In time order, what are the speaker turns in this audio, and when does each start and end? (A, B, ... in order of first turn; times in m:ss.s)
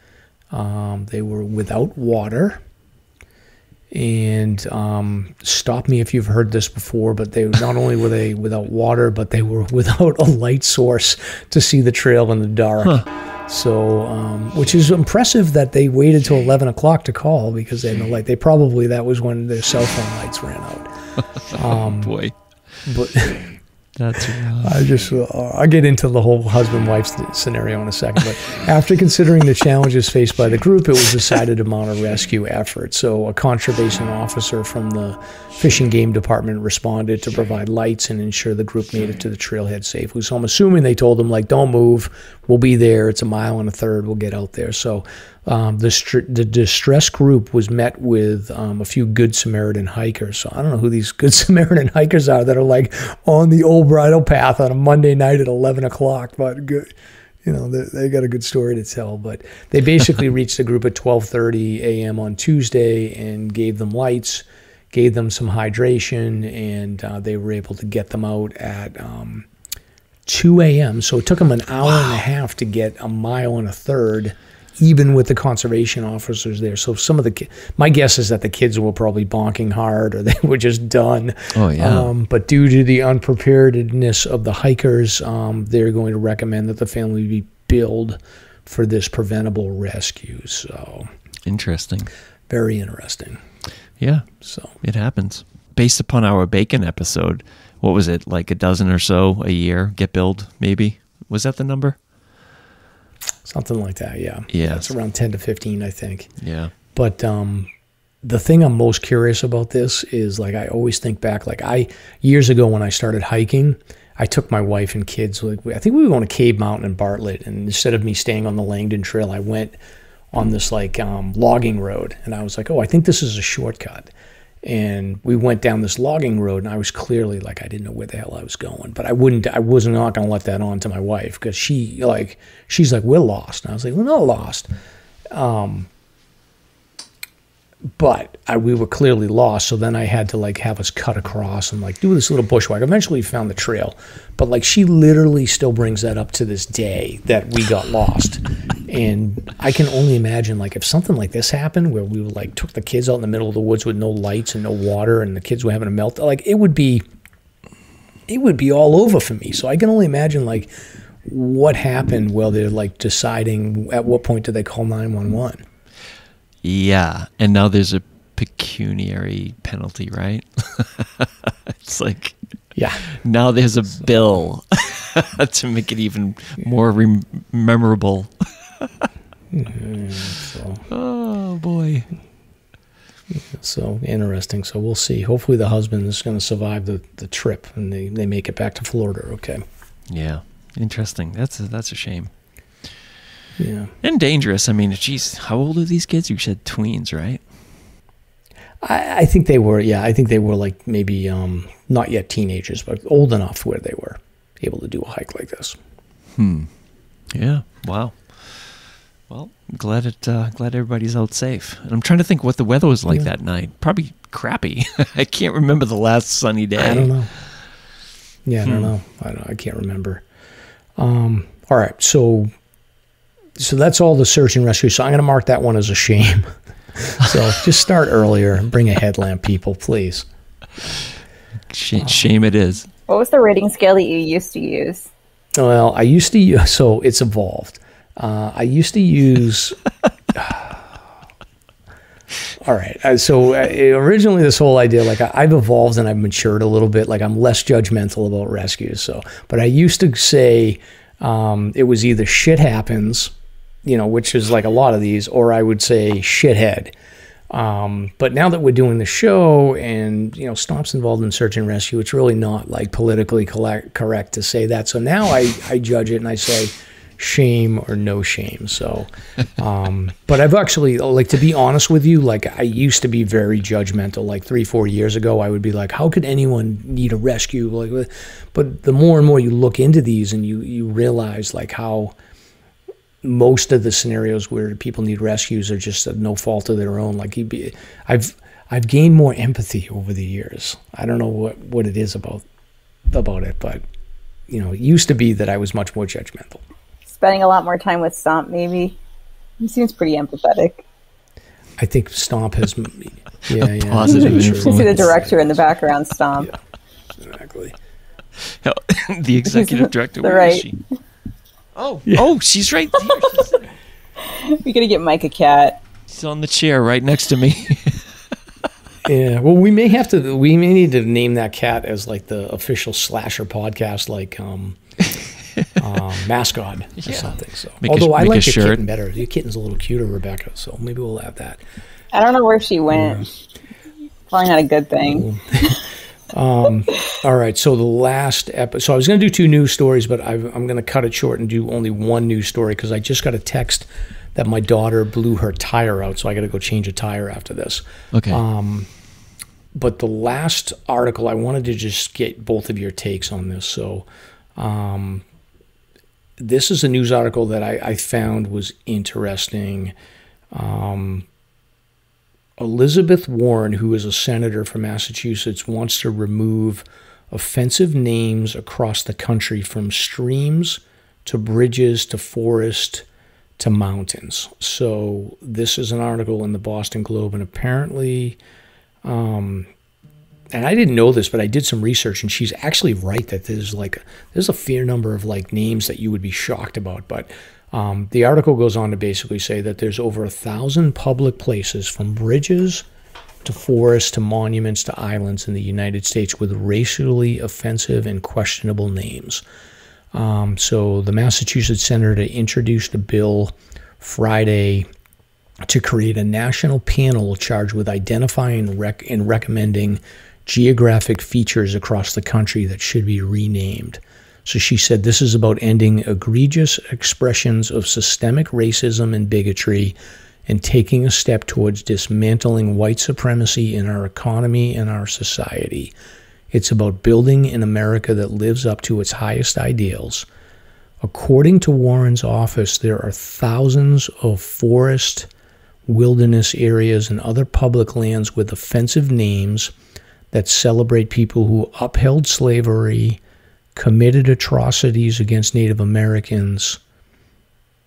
0:00.5-0:02.6 A
0:03.9-0:20.9 A
0:21.5-0:22.4 B
0:21.5-0:22.2 A
0:22.8-0:23.5 A
0:24.0-0:25.0 B
0:24.6-0:56.9 A
0:57.4-1:09.5 A
1:10.3-1:31.1 A
1:21.6-1:22.1 B
1:31.5-1:32.1 B
1:32.5-1:33.4 A
1:34.0-1:34.3 B
1:34.4-1:34.7 A
1:34.8-1:42.0 B
1:43.4-1:46.3 A
1:44.5-1:44.9 B
1:46.4-1:46.7 B
1:46.9-1:47.7 A
1:48.2-1:59.8 A
2:00.3-2:04.1 A
2:04.6-2:14.7 A
2:15.3-2:15.9 A
2:18.0-2:37.0 A
2:38.3-2:40.7 A
2:41.3-2:45.6 A
2:46.6-2:52.4 B
2:52.8-2:53.0 A
2:53.2-2:59.1 B
2:59.5-3:00.8 A
3:00.9-3:02.1 B
3:03.5-3:09.6 A
3:10.1-3:12.3 B
3:13.6-3:13.9 A
3:14.0-3:17.4 B
3:18.8-3:25.8 A
3:26.4-3:26.7 B
3:27.3-3:28.7 B
3:29.3-3:37.1 B
3:36.8-3:37.3 A
3:38.5-3:40.2 A
3:38.6-3:38.9 B
3:41.0-3:42.5 A
3:43.6-3:46.5 A
3:47.0-3:50.3 A
3:47.2-3:47.6 B
3:51.7-3:52.9 B
3:53.1-3:55.1 C
3:55.6-3:59.8 A
4:00.4-4:00.8 A
4:02.6-4:13.3 A
4:13.8-4:16.9 A
4:17.5-4:42.1 A
4:43.2-4:52.4 A
4:53.1-4:53.8 A
4:54.5-4:56.6 A
4:57.1-4:59.0 C
4:59.6-5:00.8 C
5:01.8-5:05.5 A
5:03.6-5:05.2 B
5:04.1-5:06.5 C
5:07.2-5:07.7 A
5:08.4-5:10.8 B
5:09.5-5:10.7 C
5:11.8-5:13.6 B
5:14.3-5:15.8 C
5:16.1-5:18.0 B
5:19.0-5:24.8 A
5:25.8-5:31.6 A
5:27.0-5:28.8 B
5:32.1-5:33.3 C
5:32.9-5:33.3 A
5:34.3-5:35.8 C
5:35.1-5:35.8 A
5:36.3-5:48.9 A
5:48.1-5:48.4 B
5:49.7-5:54.1 A
5:54.6-5:55.2 A
5:56.4-5:59.9 A
6:00.5-6:01.3 A
6:02.6-6:13.0 A
6:13.6-6:18.4 A
6:19.0-6:19.7 A
6:20.5-6:32.8 A
6:33.4-6:39.4 A
6:40.1-6:44.9 A
6:45.7-7:05.9 A
7:06.5-7:10.3 A
7:11.0-7:15.3 A
7:15.9-7:19.7 A
7:20.3-7:23.2 A
7:23.8-7:26.8 A